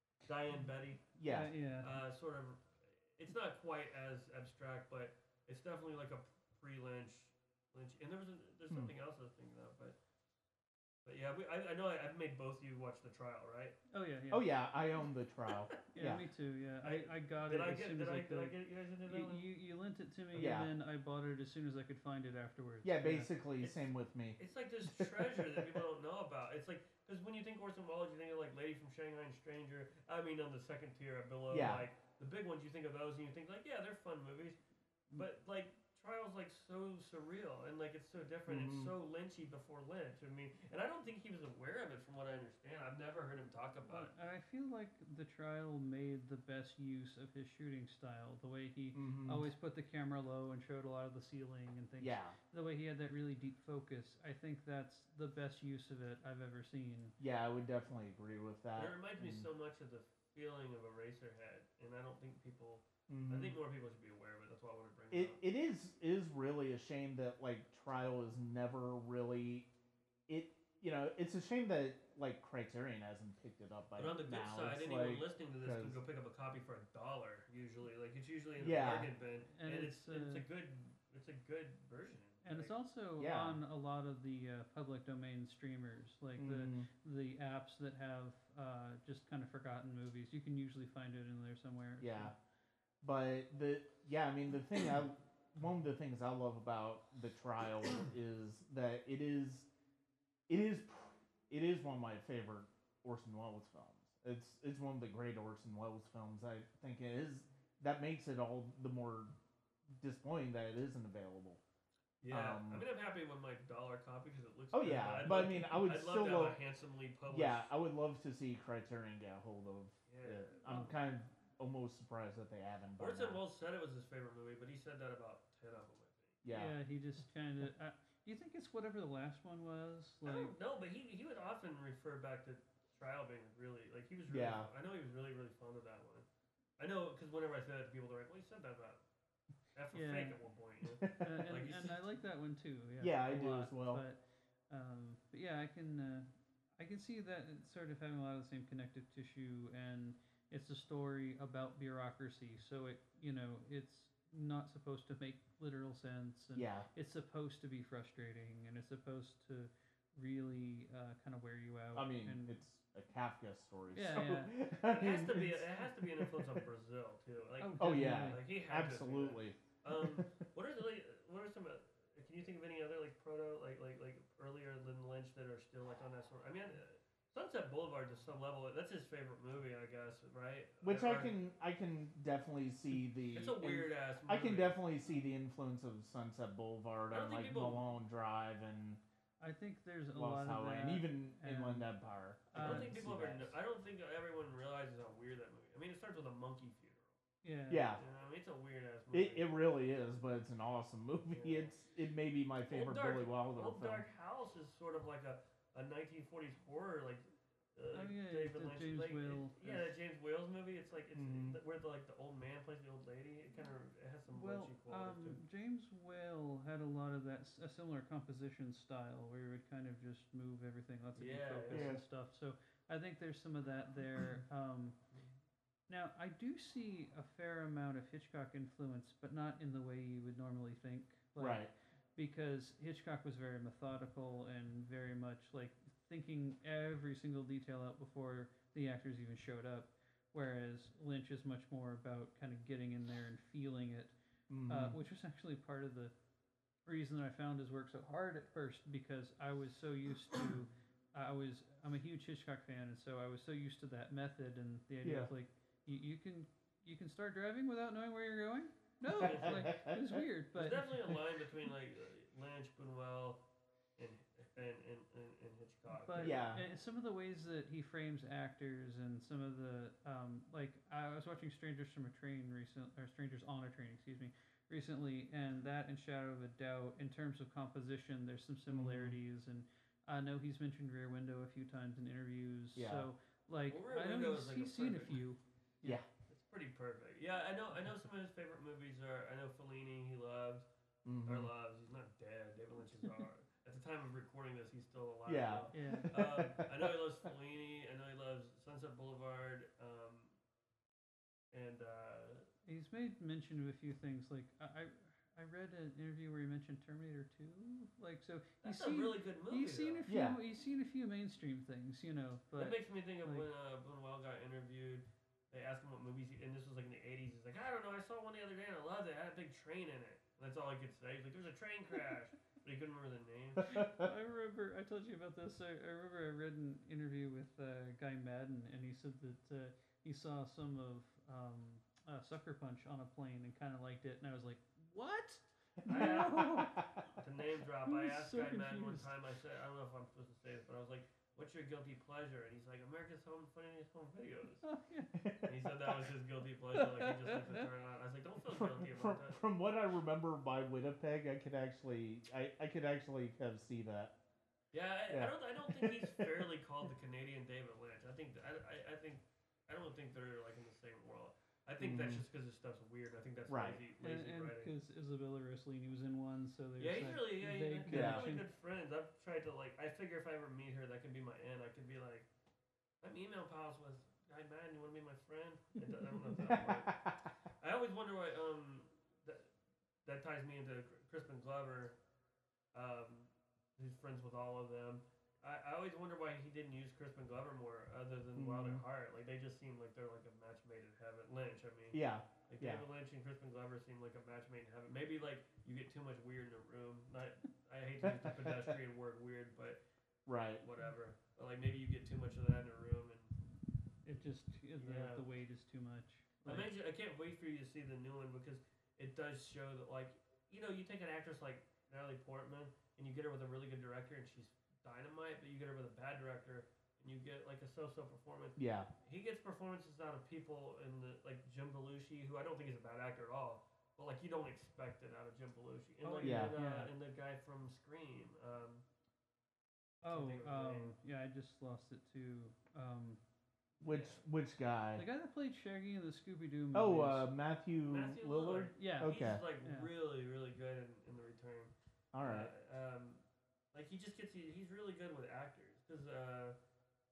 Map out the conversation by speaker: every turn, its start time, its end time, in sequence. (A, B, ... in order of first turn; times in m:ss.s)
0:00.2-0:01.2 A
0:01.2-0:01.5 B
0:01.2-0:01.9 C
0:01.8-0:10.0 A
0:11.0-0:13.8 A
0:13.9-0:14.5 C
0:14.3-0:16.2 B
0:15.5-0:15.7 A
0:15.9-0:23.3 C
0:16.8-0:19.4 A
0:20.3-0:20.6 A
0:20.4-0:20.7 B
0:22.8-0:25.8 B
0:23.6-0:34.6 A
0:31.5-0:31.8 B
0:35.1-0:44.1 A
0:38.5-0:38.9 B
0:43.9-0:57.2 C
0:49.0-0:49.5 B
0:52.0-0:52.4 B
0:57.2-0:59.5 B
0:58.8-1:05.4 A
1:03.1-1:03.6 B
1:05.1-1:09.7 B
1:10.3-1:16.0 B
1:14.0-1:22.7 A
1:18.6-1:19.1 B
1:19.5-1:20.5 C
1:22.4-1:32.4 C
1:23.2-1:23.6 B
1:26.4-1:26.9 B
1:32.0-1:32.4 B
1:33.0-1:39.7 B
1:40.5-1:49.3 B
1:50.0-1:51.6 B
1:52.2-1:57.7 A
1:52.3-1:52.8 B
1:54.7-1:56.6 B
1:57.3-2:03.4 B
2:00.1-2:00.6 A
2:00.6-2:01.0 C
2:03.0-2:06.4 A
2:06.4-2:06.8 B
2:06.5-2:10.5 C
2:10.2-2:16.3 A
2:14.3-2:14.7 B
2:16.8-2:19.0 A
2:19.8-2:22.0 A
2:19.9-2:20.4 C
2:20.8-2:21.2 B
2:21.2-2:24.2 C
2:23.0-2:24.0 B
2:24.7-2:42.6 C
2:36.6-2:36.9 B
2:41.9-2:46.6 B
2:43.9-2:44.6 C
2:44.8-3:01.4 A
2:47.6-2:48.4 C
2:47.8-2:50.3 B
3:00.8-3:09.0 B
3:03.3-3:04.8 A
3:07.1-3:07.9 A
3:09.4-3:11.9 C
3:10.1-3:13.5 B
3:12.5-3:13.0 C
3:12.6-3:17.2 A
3:17.4-3:17.9 C
3:17.7-3:18.0 B
3:18.0-3:19.5 A
3:19.1-3:24.0 B
3:21.3-3:21.7 A
3:22.7-3:35.4 A
3:27.9-3:29.9 C
3:31.2-3:31.6 B
3:34.3-3:45.0 C
3:41.2-3:42.0 A
3:41.7-3:42.0 B
3:45.9-4:04.1 C
3:51.4-3:51.7 B
4:04.5-4:05.0 B
4:04.7-4:06.1 C
4:06.9-4:21.0 C
4:15.0-4:15.3 B
4:19.0-4:20.2 B
4:19.2-4:19.7 A
4:20.5-4:23.4 A
4:24.0-4:26.4 A
4:26.1-4:46.0 C
4:26.2-4:26.6 B
4:38.7-4:39.2 B
4:42.8-4:43.1 B
4:43.7-4:45.2 A
4:46.3-4:50.7 A
4:51.0-4:51.5 B
4:51.2-5:00.3 A
4:55.3-4:57.0 B
4:55.7-4:56.1 C
5:01.5-5:02.5 A
5:02.7-5:13.4 C
5:08.6-5:10.0 A
5:10.1-5:10.4 B
5:12.6-5:23.8 A
5:23.6-5:24.1 B
5:23.6-5:36.9 C
5:35.8-5:37.1 B
5:35.9-5:44.6 A
5:37.8-5:39.1 C
5:44.6-5:45.2 C
5:45.1-5:46.1 B
5:45.4-5:49.4 A
5:46.7-5:47.7 C
5:48.5-5:54.1 B
5:54.7-6:04.7 A
5:55.1-5:56.3 B
6:01.8-6:02.3 B
6:03.5-6:03.8 B
6:04.0-6:08.4 C
6:06.8-6:12.3 A
6:07.9-6:08.3 B
6:13.0-6:17.1 A
6:16.5-6:17.3 B
6:17.6-6:19.5 A
6:20.1-6:22.0 A
6:22.7-6:39.8 A
6:28.4-6:28.8 B
6:31.9-6:32.8 B
6:38.0-6:38.8 B
6:40.3-6:40.6 B
6:40.6-6:43.4 A
6:44.0-6:46.7 C
6:44.8-6:45.3 A
6:46.4-7:08.8 A
6:58.6-6:58.9 B
7:06.0-7:06.9 C
7:06.2-7:06.6 B
7:10.0-7:13.2 C
7:10.1-7:11.0 A
7:13.8-7:14.2 A
7:13.8-7:15.0 B
7:15.0-7:17.3 C
7:16.7-7:19.4 B
7:17.9-7:26.6 A
7:18.8-7:19.9 C
7:22.1-7:22.5 B